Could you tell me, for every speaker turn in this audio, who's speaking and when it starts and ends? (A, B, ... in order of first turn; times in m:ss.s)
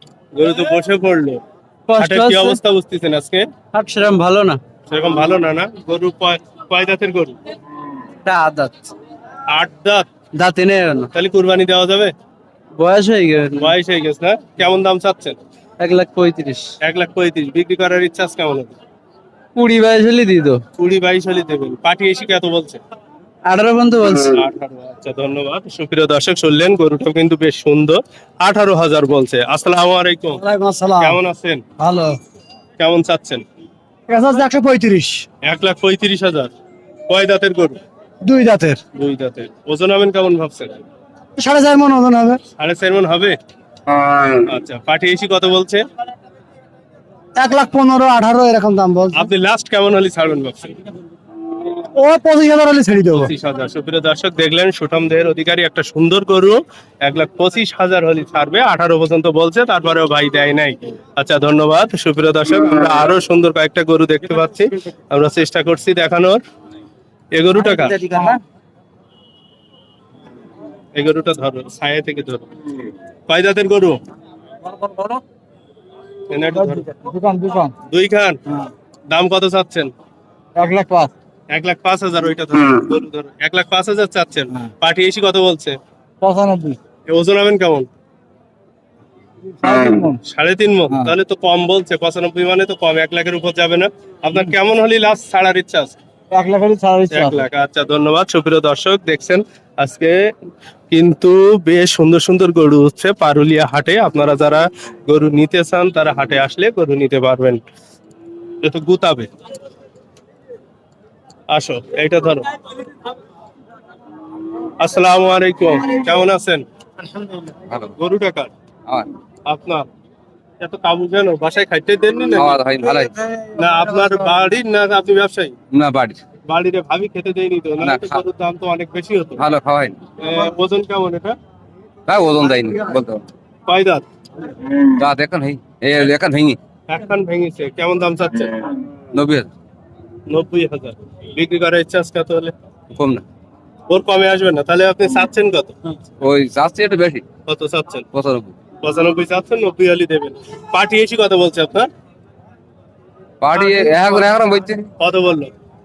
0:00.4-0:01.4 A
0:01.9-0:02.6 B
0:02.0-0:03.5 A
0:03.7-0:04.6 B
0:04.9-0:07.4 A
0:08.2-0:08.9 B
0:09.5-0:10.1 A
0:10.4-0:11.1 B
0:11.1-0:12.1 A
0:12.8-0:13.7 B
0:13.6-0:15.4 A
0:15.8-0:16.7 B
0:16.8-0:18.8 A
0:19.6-0:20.6 B
0:20.8-0:22.8 A
0:23.5-0:24.4 B
0:24.2-0:30.4 A
0:30.4-0:31.2 C
0:31.0-0:31.6 A
0:31.8-0:32.2 C
0:32.8-0:33.4 A
0:34.1-0:35.3 C
0:35.4-0:36.5 A
0:37.1-0:37.8 A
0:38.2-0:38.8 C
0:39.0-0:40.8 A
0:41.4-0:42.4 C
0:42.6-0:43.4 A
0:44.5-0:45.8 A
0:47.4-0:49.3 C
0:49.1-0:50.7 A
0:52.0-0:53.3 C
0:53.1-1:06.4 A
1:07.4-1:08.0 A
1:07.7-1:08.4 C
1:11.0-1:12.5 A
1:13.3-1:14.0 A
1:14.7-1:15.2 C
1:16.3-1:16.9 A
1:16.6-1:17.7 C
1:17.9-1:18.4 A
1:19.1-1:19.9 A
1:20.6-1:21.1 C
1:21.5-1:25.8 A
1:26.2-1:26.8 C
1:27.1-1:27.9 A
1:29.6-1:30.2 C
1:30.3-1:36.0 A
1:36.3-1:37.4 C
1:37.1-1:40.3 A
1:40.9-1:47.6 A
1:48.6-1:49.3 A
1:51.5-1:52.5 A
1:54.8-1:56.6 A
1:58.0-1:58.5 A
1:59.5-1:59.8 A
2:00.6-2:02.6 A
2:02.3-2:03.1 D
2:03.5-2:05.6 A
2:05.7-2:06.2 D
2:06.5-2:09.4 A
2:07.8-2:08.2 D
2:09.4-2:10.0 D
2:10.2-2:11.4 A
2:12.1-2:13.3 D
2:13.7-2:14.0 A
2:15.0-2:16.6 D
2:16.9-2:18.5 A
2:19.1-2:19.5 D
2:20.3-2:22.5 A
2:22.9-2:23.2 D
2:23.9-2:25.8 A
2:26.2-2:27.2 D
2:27.5-2:28.1 A
2:28.1-2:28.5 D
2:28.8-2:31.9 A
2:33.4-2:34.9 D
2:35.0-2:35.5 A